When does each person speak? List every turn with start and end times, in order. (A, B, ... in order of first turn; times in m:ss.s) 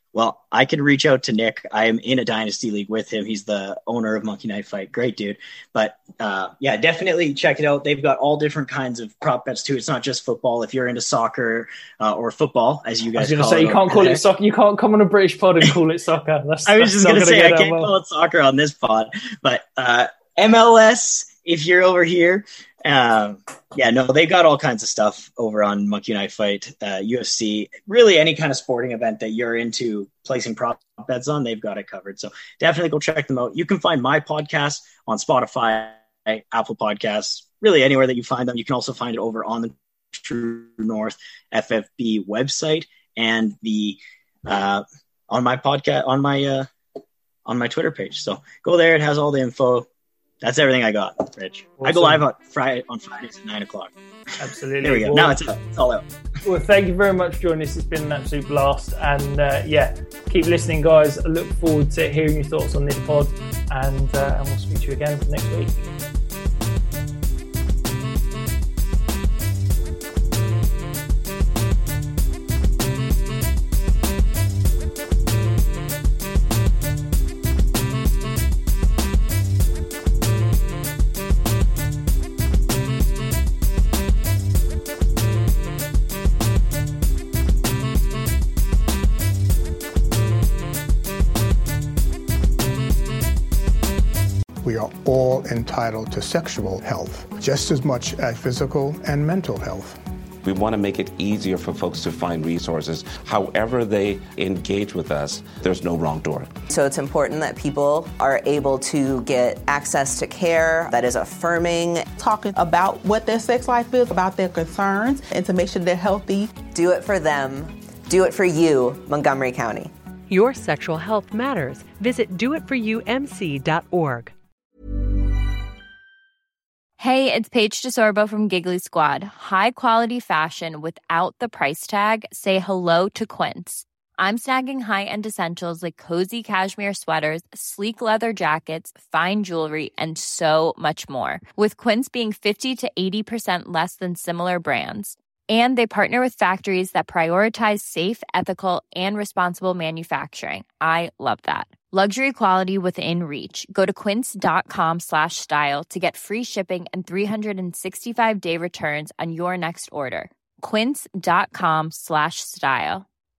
0:00.1-0:14.2 A
0:13.2-0:17.9 B
0:16.7-0:46.7 A
0:47.4-0:49.8 A
0:50.4-0:53.9 A
0:51.8-0:52.2 B
0:54.4-0:55.4 B
0:54.8-0:56.0 A
0:56.4-1:05.8 B
1:34.6-1:40.0 C
1:40.4-1:46.6 D
1:46.7-1:52.1 E
1:52.2-1:56.6 F
1:56.7-1:59.9 E
2:00.3-2:04.3 G
2:07.0-2:43.0 H